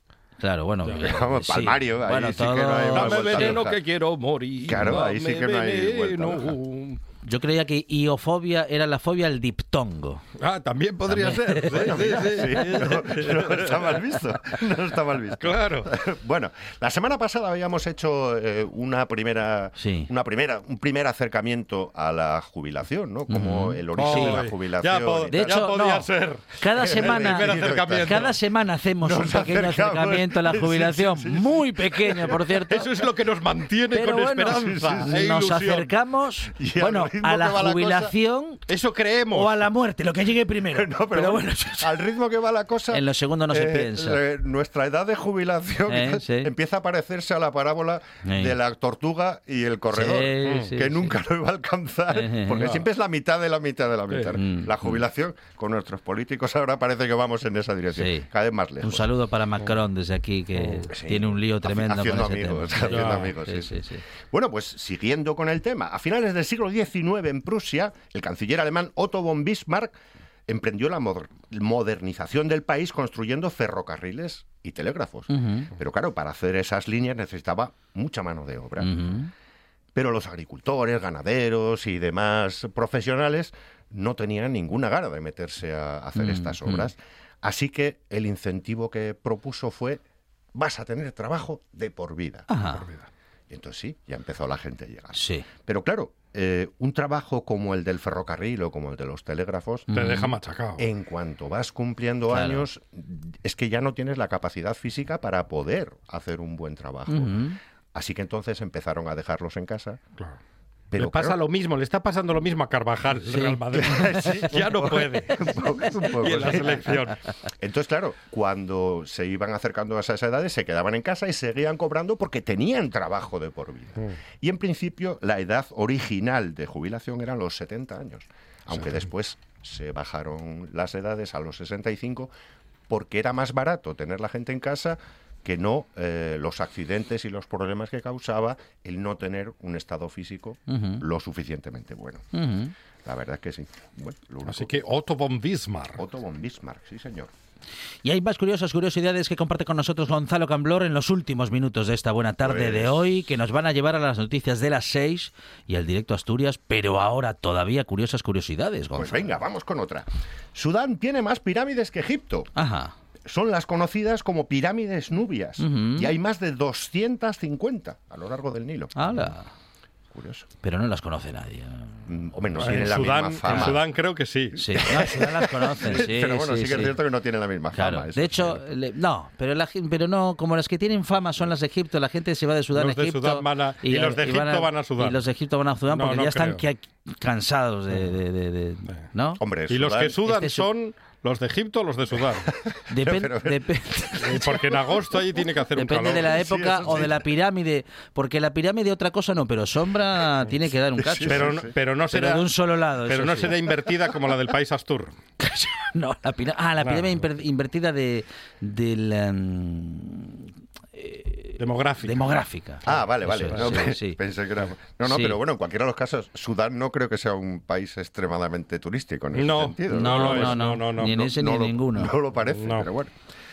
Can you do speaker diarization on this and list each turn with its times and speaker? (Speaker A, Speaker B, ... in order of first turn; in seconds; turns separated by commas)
Speaker A: 0.4-3.7, Speaker B: 1.0-3.8, Speaker C: 2.9-7.0, Speaker B: 4.6-6.5, Speaker A: 7.2-10.2, Speaker C: 10.4-14.0, Speaker A: 11.1-12.5, Speaker B: 11.8-25.6, Speaker C: 15.4-15.9, Speaker A: 19.8-20.1, Speaker A: 23.3-24.4, Speaker C: 23.9-28.3, Speaker A: 25.3-32.9, Speaker B: 26.7-28.3, Speaker B: 29.0-32.4, Speaker C: 32.7-35.9, Speaker A: 33.9-38.6, Speaker B: 34.7-35.0, Speaker B: 36.5-38.1, Speaker C: 38.7-39.5, Speaker A: 39.3-41.9, Speaker B: 40.6-59.1, Speaker A: 42.9-44.2, Speaker A: 45.9-46.5, Speaker A: 48.2-48.5, Speaker A: 49.9-51.2, Speaker C: 50.4-50.7, Speaker A: 52.1-52.7, Speaker C: 54.1-54.4, Speaker A: 54.3-55.0, Speaker A: 58.0-58.3, Speaker A: 58.8-64.0, Speaker B: 60.9-69.9, Speaker C: 62.9-63.3, Speaker B: 70.5-79.0, Speaker A: 75.3-75.7, Speaker A: 78.8-79.3, Speaker B: 79.9-90.0, Speaker A: 86.2-86.9, Speaker B: 90.5-92.5, Speaker A: 92.5-92.8, Speaker C: 92.7-93.1, Speaker B: 93.5-99.9, Speaker A: 95.1-95.5, Speaker A: 99.9-100.3, Speaker C: 99.9-100.8, Speaker B: 100.8-110.0, Speaker A: 102.3-102.6, Speaker A: 107.1-107.6, Speaker B: 110.9-111.4, Speaker C: 111.0-115.3, Speaker A: 113.3-114.4, Speaker B: 113.8-132.3, Speaker C: 116.2-117.2, Speaker A: 116.3-116.7, Speaker C: 128.7-129.0, Speaker B: 132.9-142.2, Speaker A: 140.7-141.0, Speaker A: 142.3-142.7, Speaker B: 143.0-144.8, Speaker C: 144.4-146.0, Speaker B: 146.0-147.3, Speaker A: 148.0-159.4, Speaker B: 152.4-153.1, Speaker B: 158.9-162.5, Speaker A: 162.6-162.9, Speaker B: 163.3-169.3, Speaker A: 165.6-166.1, Speaker A: 168.9-169.5, Speaker B: 170.1-170.5, Speaker A: 170.6-171.9, Speaker B: 172.1-173.9, Speaker C: 172.6-175.2, Speaker A: 172.6-172.9, Speaker A: 173.4-173.8, Speaker A: 174.6-176.9, Speaker B: 174.7-178.6, Speaker A: 177.7-189.4, Speaker C: 182.7-185.2, Speaker C: 185.9-186.6, Speaker B: 189.4-190.2, Speaker C: 189.7-192.5, Speaker A: 190.2-190.7, Speaker B: 192.5-194.5, Speaker A: 192.9-194.7, Speaker C: 194.2-196.4, Speaker A: 195.7-203.7, Speaker B: 196.1-197.2, Speaker B: 200.9-201.7, Speaker C: 201.2-202.5, Speaker C: 203.0-205.2, Speaker A: 205.4-210.4, Speaker C: 206.8-207.2, Speaker A: 210.9-214.2, Speaker C: 211.6-212.4, Speaker B: 212.8-220.6, Speaker C: 213.5-213.8, Speaker A: 215.0-215.4, Speaker C: 219.3-221.2, Speaker A: 219.9-222.1, Speaker B: 221.2-223.1, Speaker C: 222.5-222.9